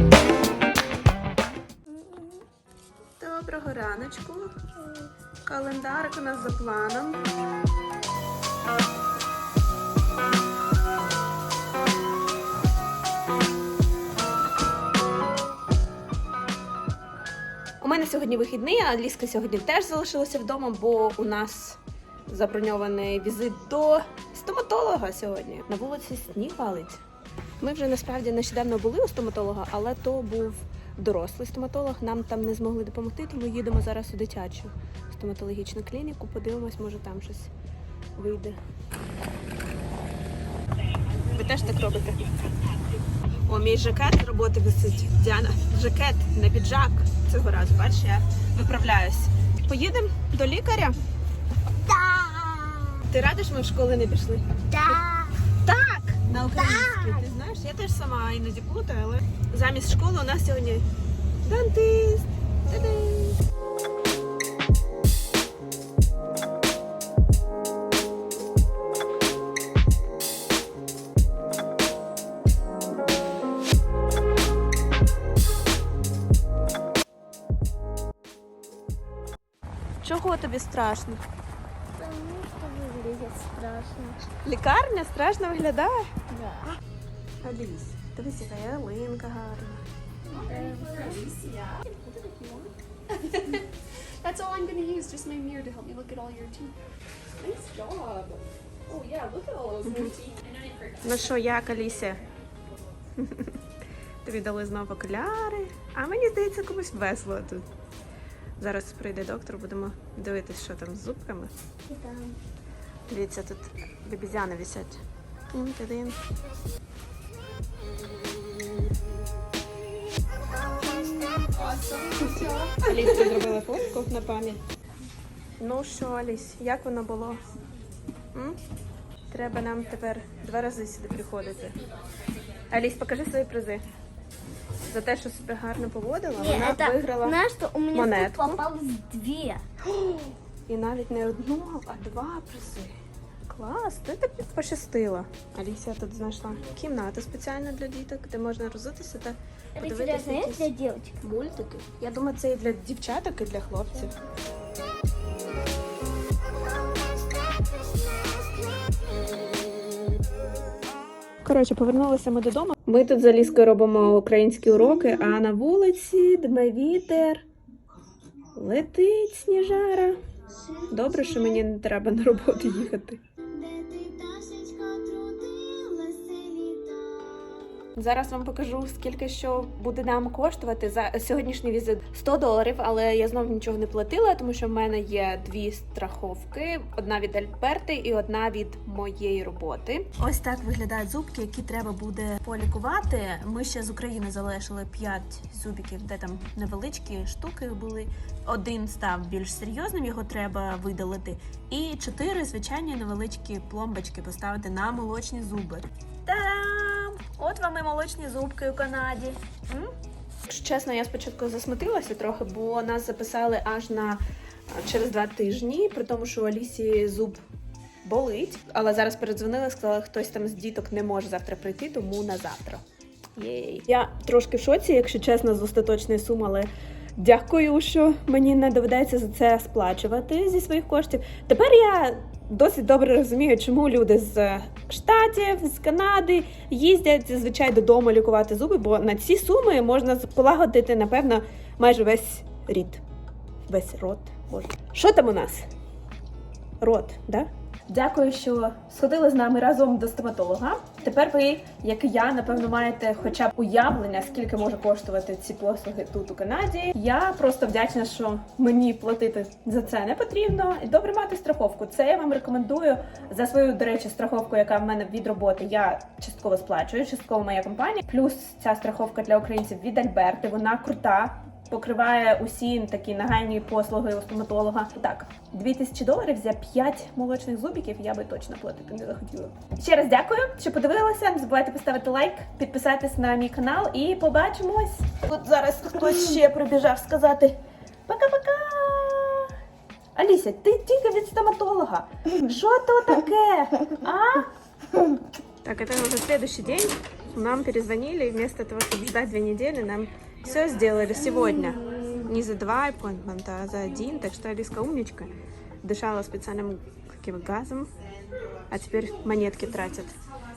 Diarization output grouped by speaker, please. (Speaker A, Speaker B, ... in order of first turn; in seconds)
Speaker A: 1.9-2.4, 51.9-53.0, 54.7-55.5, 56.5-57.2, 82.0-84.3, 86.3-86.8, 90.3-91.2, 111.9-112.4, 136.4-139.6, 149.8-151.2, 170.5-171.6, 173.5-177.4
Speaker B: 3.2-4.8, 5.4-7.3, 17.8-27.0, 27.6-37.5, 38.2-38.6, 41.3-42.3, 43.5-51.0, 53.1-60.9, 61.4-63.4, 80.0-81.2, 84.4-86.1, 87.4-89.8, 99.9-100.2, 101.0-102.2, 103.2-103.6, 104.2-107.7, 108.6-111.5, 113.1-115.0, 115.5-116.2, 122.8-124.6, 125.6-127.4, 129.3-131.8, 132.7-133.8, 134.9-137.4, 137.9-138.6, 139.8-143.0, 143.5-154.2, 161.4-167.4, 168.5-170.2, 170.9-173.2, 178.0-217.4, 218.0-222.8, 223.4-243.0, 243.7-245.7, 246.8-289.5, 290.2-294.5, 295.6-305.3, 305.8-307.9, 308.7-310.1
Speaker C: 90.3-93.7, 94.2-96.8, 97.4-101.3, 121.4-123.3